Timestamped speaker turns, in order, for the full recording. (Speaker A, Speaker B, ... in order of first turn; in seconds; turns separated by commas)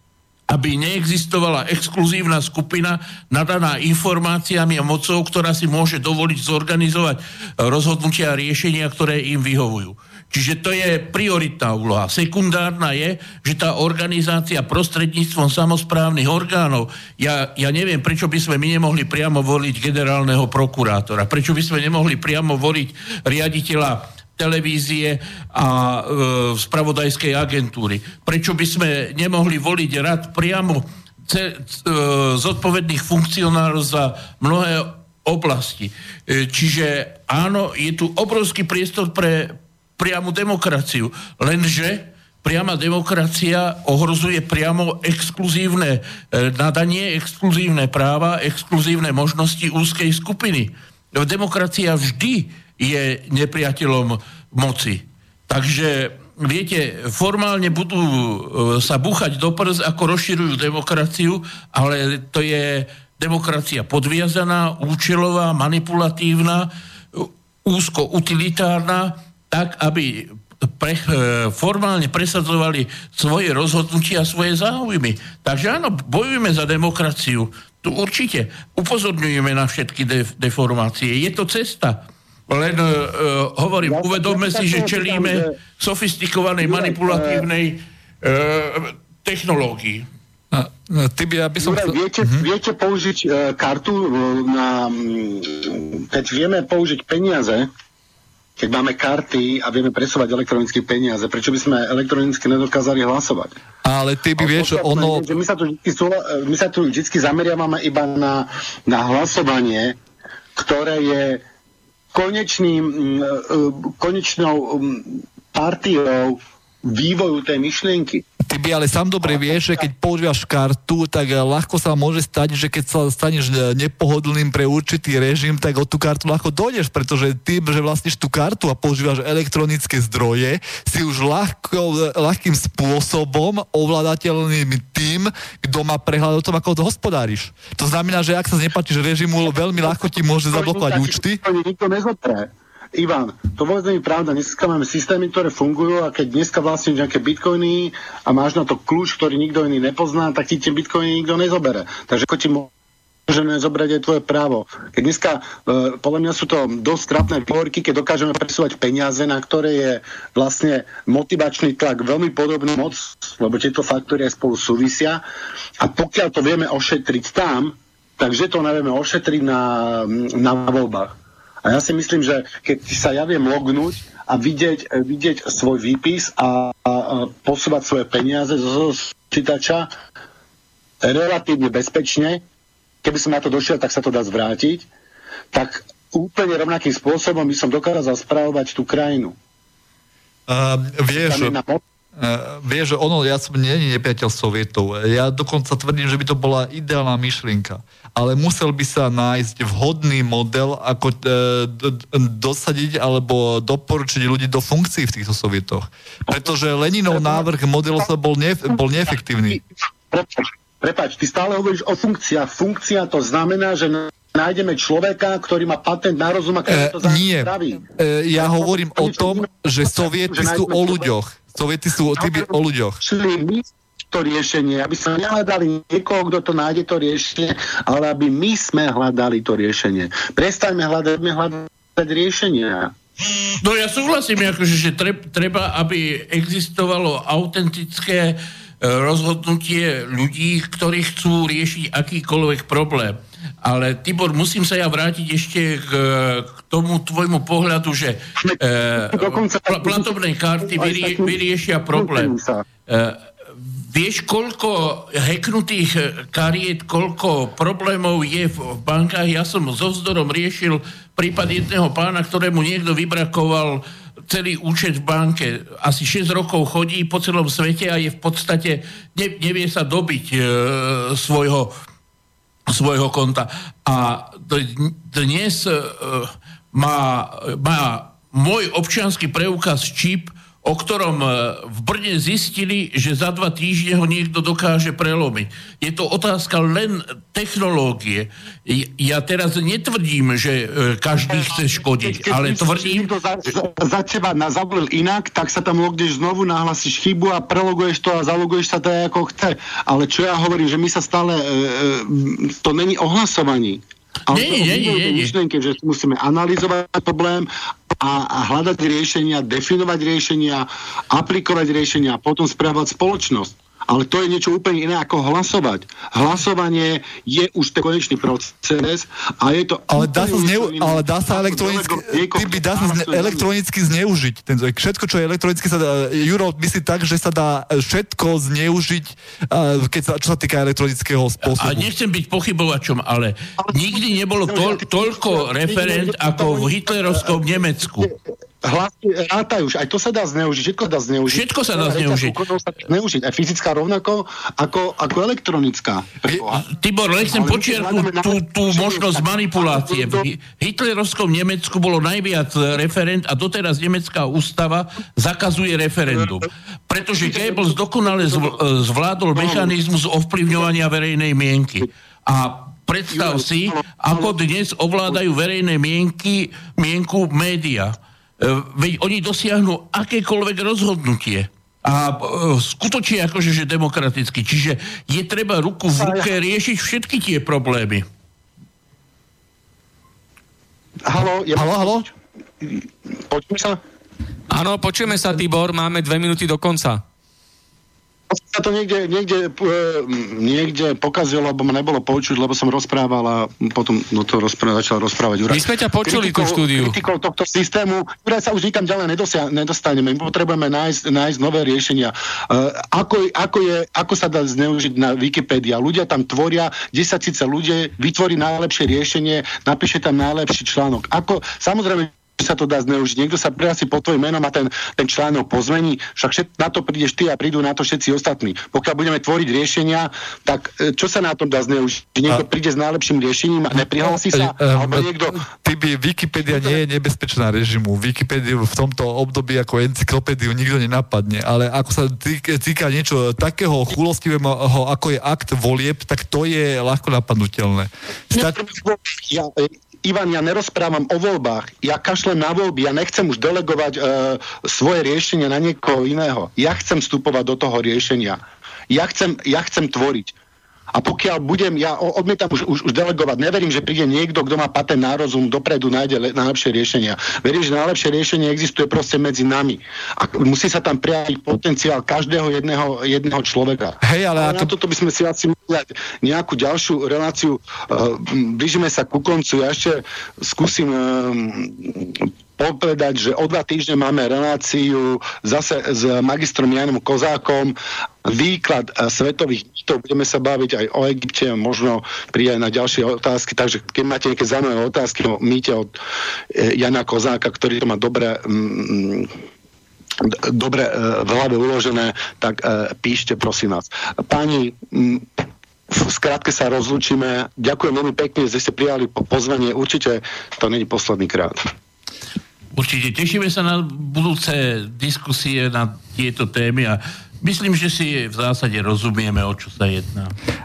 Speaker A: 0.5-90.1, Speaker B: 83.8-85.6, Speaker B: 86.6-87.5, Speaker C: 90.5-92.5, Speaker B: 91.6-97.7, Speaker B: 98.6-103.5, Speaker C: 103.8-105.3, Speaker B: 104.4-110.0, Speaker B: 110.6-111.4, Speaker B: 112.1-118.2, Speaker C: 118.5-141.4, Speaker B: 140.5-152.7, Speaker B: 153.3-165.2, Speaker B: 165.8-179.9, Speaker B: 181.0-182.4, Speaker B: 183.0-184.9, Speaker B: 185.5-189.3, Speaker C: 190.5-191.6, Speaker B: 191.3-191.8, Speaker C: 192.2-209.6, Speaker B: 207.1-207.4, Speaker B: 210.1-217.8, Speaker C: 216.7-223.0, Speaker B: 218.4-221.1, Speaker B: 222.2-222.5, Speaker B: 223.0-232.9, Speaker A: 233.6-252.3, Speaker B: 249.1-251.3, Speaker B: 251.9-252.6, Speaker A: 252.9-271.7, Speaker A: 272.7-293.1, Speaker B: 291.4-323.5, Speaker A: 304.3-305.3, Speaker C: 319.9-331.9, Speaker A: 331.4-338.1, Speaker B: 334.4-337.4, Speaker B: 338.6-346.7, Speaker A: 341.3-342.4, Speaker A: 346.6-378.1, Speaker B: 347.3-350.2, Speaker B: 376.0-376.3, Speaker B: 381.1-383.8, Speaker C: 381.6-382.1, Speaker D: 384.5-387.0, Speaker B: 388.3-425.4, Speaker D: 395.5-397.0, Speaker C: 424.0-438.6, Speaker B: 438.3-450.3, Speaker B: 450.9-486.0, Speaker C: 464.0-464.7, Speaker B: 486.5-489.3, Speaker B: 490.2-495.3, Speaker B: 495.9-501.7, Speaker A: 502.7-510.4